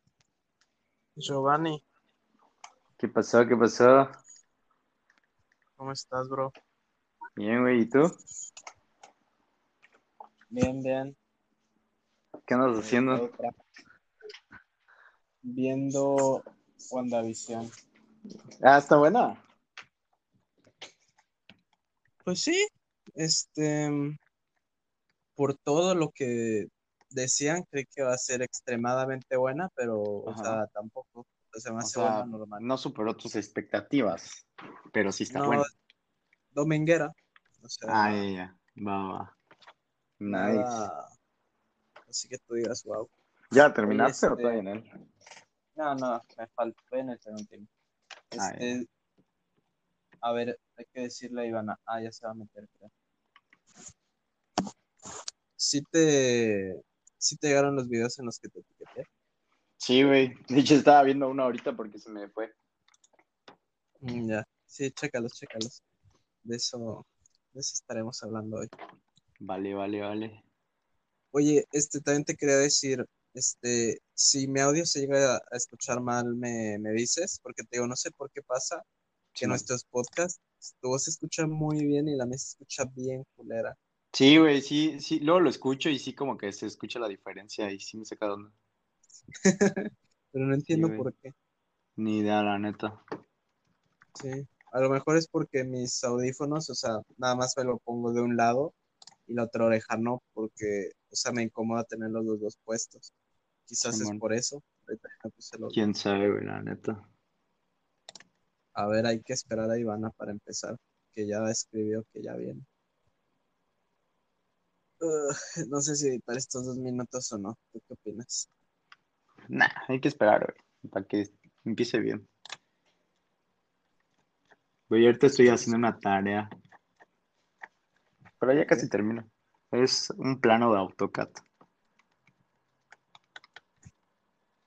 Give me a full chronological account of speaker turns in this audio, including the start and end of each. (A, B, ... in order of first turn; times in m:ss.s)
0:01.2-0:01.8 A
0:03.0-0:04.1 B
0:05.8-0:06.5 A
0:07.4-0:08.1 B
0:10.5-0:11.2 A
0:12.5-0:13.3 B
0:12.7-0:13.5 A
0:15.4-0:17.7 A
0:18.6-0:19.4 B
0:22.2-0:22.6 A
0:23.2-0:24.2 A
0:25.4-0:32.6 A
0:30.2-0:30.6 B
0:31.8-0:35.6 B
0:35.3-0:35.7 A
0:36.5-0:38.2 A
0:37.9-0:39.3 B
0:40.2-0:40.8 B
0:40.3-0:41.1 A
0:42.1-0:43.1 A
0:43.5-0:44.8 B
0:43.8-0:44.6 A
0:45.8-0:47.7 A
0:48.3-0:48.8 A
0:48.4-0:48.8 B
0:50.2-0:52.9 A
0:55.6-0:59.1 A
0:59.8-1:02.5 B
1:04.0-1:05.8 A
1:06.4-1:08.7 A
1:09.4-1:10.4 B
1:11.3-1:18.8 A
1:19.4-1:19.6 B
1:19.4-1:23.8 A
1:24.1-1:28.5 B
1:29.4-1:31.3 A
1:30.7-1:31.1 B
1:32.0-1:33.0 B
1:34.2-1:38.7 A
1:39.3-1:43.1 A
1:43.7-1:45.8 A
1:43.8-1:44.2 B
1:45.7-1:47.0 B
1:48.8-1:52.6 A
1:55.0-1:58.5 A
1:59.5-2:02.3 B
2:04.9-2:06.5 B
2:08.4-2:11.4 B